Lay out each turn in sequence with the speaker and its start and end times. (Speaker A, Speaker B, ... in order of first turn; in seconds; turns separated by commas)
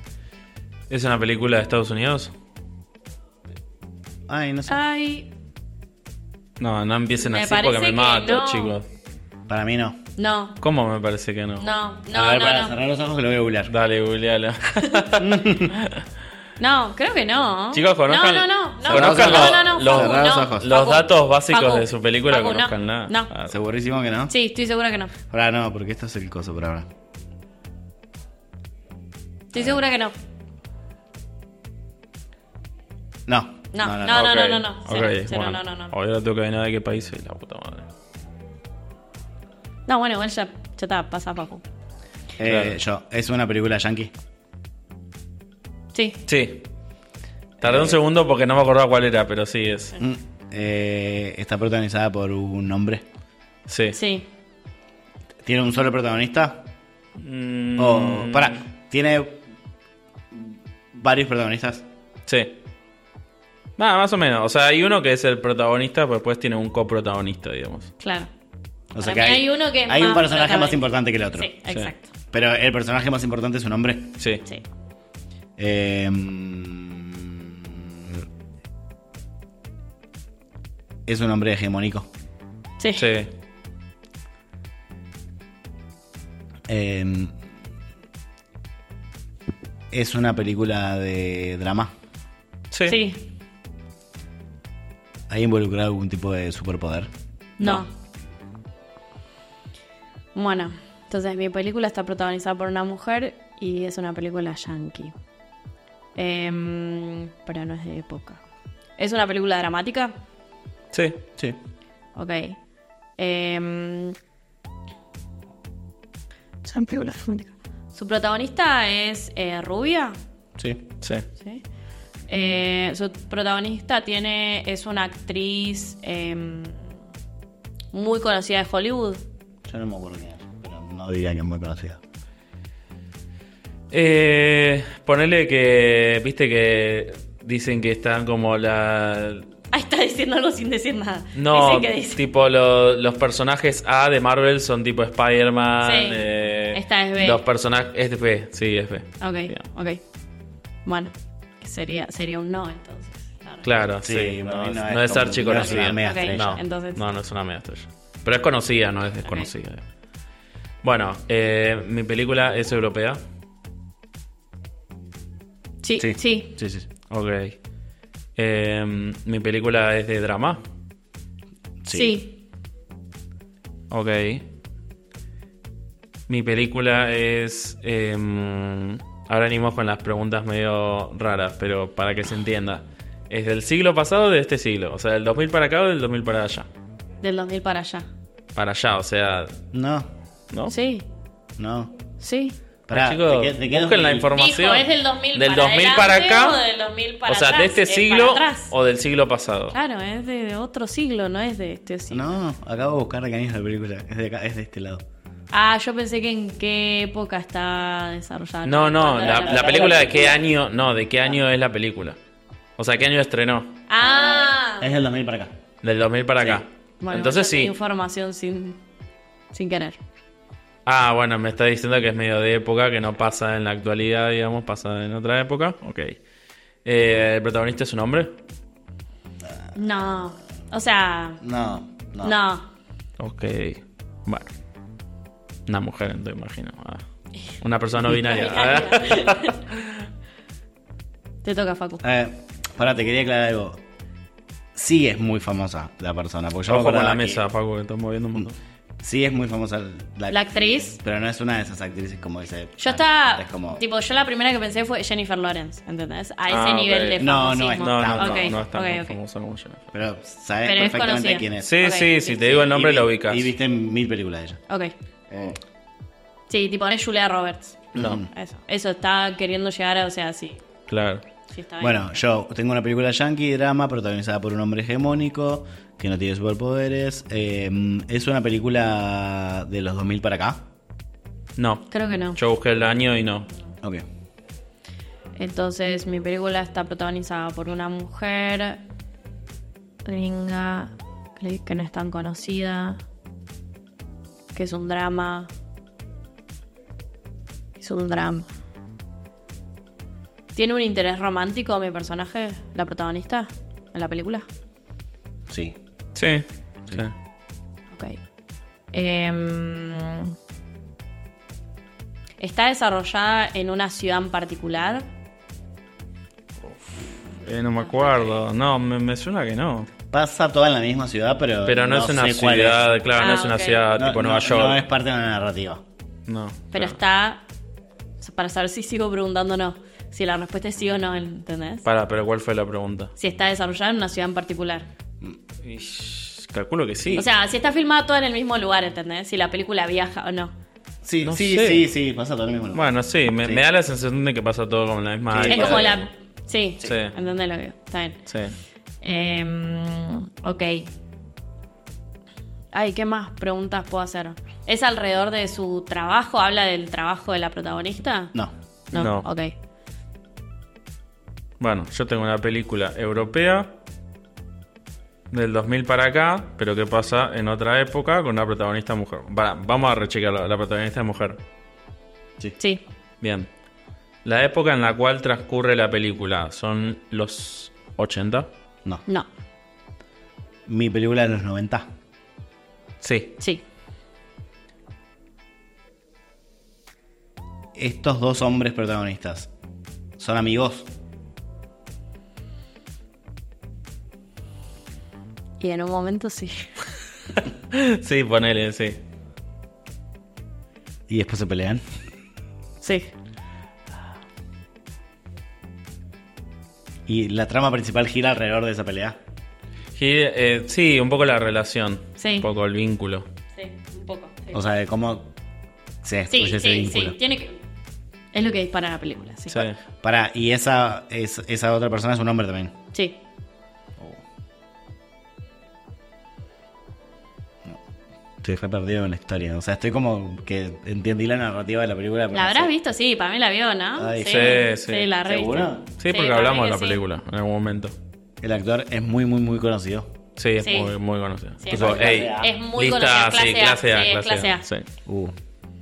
Speaker A: 0.9-2.3, Speaker B: 4.3-4.8, Speaker C: 4.7-5.3, Speaker A: 6.6-8.9, Speaker C: 7.2-8.8, Speaker B: 9.5-10.0, Speaker C: 10.2-10.6, Speaker A: 10.6-11.7, Speaker C: 11.6-12.8, Speaker B: 12.1-13.7, Speaker A: 13.7-16.0, Speaker C: 14.8-15.0, Speaker B: 15.2-15.8, Speaker C: 16.6-23.3, Speaker A: 17.7-23.5, Speaker B: 18.9-20.7, Speaker B: 23.5-24.3, Speaker C: 24.3-25.1, Speaker B: 25.3-26.9, Speaker C: 29.5-30.1, Speaker B: 33.3-34.3, Speaker C: 33.7-35.9, Speaker A: 34.1-37.9, Speaker C: 39.9-41.6, Speaker B: 42.4-44.1, Speaker A: 42.5-42.8, Speaker C: 45.9-46.2, Speaker A: 46.3-46.7, Speaker A: 47.6-50.0, Speaker B: 47.6-48.0, Speaker B: 50.0-53.0, Speaker A: 53.7-54.0, Speaker C: 53.9-54.3, Speaker B: 55.5-56.7, Speaker A: 57.2-58.6, Speaker B: 57.8-59.4, Speaker B: 60.3-61.9, Speaker A: 62.3-62.6, Speaker A: 63.8-67.9, Speaker C: 68.0-68.3, Speaker B: 68.9-71.5, Speaker C: 69.0-70.8, Speaker C: 71.4-72.1, Speaker B: 72.3-74.2, Speaker B: 75.6-78.2, Speaker B: 81.1-82.1, Speaker C: 82.8-83.1, Speaker A: 83.0-83.3, Speaker B: 86.7-87.3, Speaker B: 89.9-91.9, Speaker A: 92.7-93.0, Speaker C: 92.9-93.2, Speaker B: 95.3-97.1, Speaker C: 97.6-97.9, Speaker C: 100.3-105.1, Speaker C: 106.2-108.4, Speaker C: 109.0-110.1, Speaker A: 110.9-111.2, Speaker C: 112.2-112.6, Speaker C: 113.2-114.2, Speaker B: 116.7-117.0, Speaker C: 117.9-120.2, Speaker C: 122.3-126.9, Speaker C: 127.9-129.2, Speaker B: 129.7-132.0, Speaker A: 133.9-139.5, Speaker C: 139.7-142.2, Speaker A: 141.3-149.6, Speaker C: 145.8-147.4, Speaker C: 149.2-150.0, Speaker C: 150.8-153.7, Speaker A: 153.6-159.8, Speaker B: 154.0-156.6, Speaker C: 156.0-157.1, Speaker A: 160.8-163.2, Speaker C: 165.8-166.6, Speaker B: 166.0-166.9, Speaker A: 167.1-167.6, Speaker A: 168.4-170.6, Speaker B: 171.8-172.1, Speaker C: 171.9-172.3, Speaker A: 173.9-174.5, Speaker A: 176.3-186.7, Speaker C: 187.2-188.1, Speaker A: 188.6-189.6, Speaker B: 189.7-190.1, Speaker C: 190.7-191.1, Speaker B: 191.6-191.9, Speaker C: 192.2-192.6, Speaker B: 192.9-194.3, Speaker A: 192.9-196.6, Speaker C: 194.3-198.7, Speaker A: 197.3-199.8, Speaker C: 199.7-202.2, Speaker B: 202.1-205.0, Speaker C: 205.5-210.4, Speaker A: 208.7-212.2, Speaker B: 209.2-210.4, Speaker A: 212.8-213.8, Speaker C: 213.9-214.9, Speaker B: 214.0-215.5, Speaker A: 215.8-217.7, Speaker C: 217.0-218.8, Speaker C: 219.5-220.0, Speaker A: 220.9-226.2, Speaker A: 226.8-228.3, Speaker C: 229.8-231.4, Speaker B: 231.4-232.3, Speaker C: 232.2-232.7, Speaker A: 233.2-234.5, Speaker A: 235.7-237.0, Speaker A: 237.6-239.9, Speaker C: 238.2-239.6, Speaker C: 241.4-242.0, Speaker B: 242.0-243.8, Speaker B: 244.8-247.4, Speaker A: 246.7-248.6, Speaker B: 249.0-253.8, Speaker C: 250.3-251.0, Speaker C: 252.8-259.2, Speaker A: 256.5-259.9, Speaker B: 257.2-258.6, Speaker B: 259.9-261.7, Speaker C: 260.6-262.6, Speaker A: 261.6-263.5, Speaker B: 262.6-264.6, Speaker C: 264.7-264.9, Speaker B: 265.3-265.6, Speaker C: 266.5-270.6, Speaker B: 267.9-268.3, Speaker A: 270.9-271.2, Speaker C: 271.5-272.0, Speaker B: 271.8-280.6, Speaker A: 281.6-283.5, Speaker C: 281.9-282.4, Speaker C: 285.4-288.8, Speaker C: 290.1-293.0, Speaker C: 294.5-295.5, Speaker C: 297.8-298.5, Speaker C: 300.6-304.5, Speaker B: 305.5-305.8, Speaker A: 306.1-307.1, Speaker C: 307.9-308.2, Speaker C: 308.9-310.3, Speaker C: 312.4-315.1, Speaker A: 316.7-319.9, Speaker C: 317.8-318.3, Speaker B: 320.1-322.9, Speaker A: 321.6-324.9, Speaker C: 323.2-323.9, Speaker B: 323.9-325.8, Speaker A: 326.3-327.0, Speaker C: 326.7-327.4, Speaker C: 328.2-331.9, Speaker A: 331.9-333.1, Speaker C: 333.2-334.9, Speaker A: 335.6-337.2, Speaker B: 337.0-337.3, Speaker C: 337.2-340.5, Speaker B: 341.0-342.9, Speaker A: 341.2-341.9, Speaker A: 342.7-346.1, Speaker B: 345.3-346.0, Speaker C: 345.5-348.2, Speaker A: 346.8-347.1, Speaker A: 348.3-348.6, Speaker C: 349.0-350.9, Speaker C: 352.7-358.3, Speaker C: 358.9-359.5, Speaker A: 358.9-359.3, Speaker A: 361.6-363.7, Speaker A: 365.3-371.4, Speaker A: 373.2-373.5, Speaker A: 374.2-378.5, Speaker B: 380.7-381.9, Speaker A: 383.0-383.4, Speaker B: 387.8-389.5, Speaker B: 390.2-390.9, Speaker C: 395.6-396.7, Speaker A: 397.7-399.0, Speaker B: 401.1-401.8, Speaker C: 402.8-403.1, Speaker B: 407.1-409.2, Speaker A: 410.0-413.3, Speaker C: 412.2-412.5, Speaker C: 413.6-414.6, Speaker B: 414.5-415.3, Speaker B: 416.0-417.2, Speaker C: 416.3-417.6, Speaker C: 418.3-419.6, Speaker A: 419.5-419.8, Speaker B: 420.0-422.7, Speaker B: 428.4-432.7, Speaker C: 432.3-437.0, Speaker B: 434.0-434.6, Speaker A: 434.2-435.1, Speaker B: 435.2-435.9, Speaker A: 436.0-437.9, Speaker B: 438.4-440.1, Speaker A: 440.4-444.9, Speaker C: 440.6-440.9, Speaker C: 441.6-444.7, Speaker B: 441.7-442.5, Speaker B: 445.1-445.3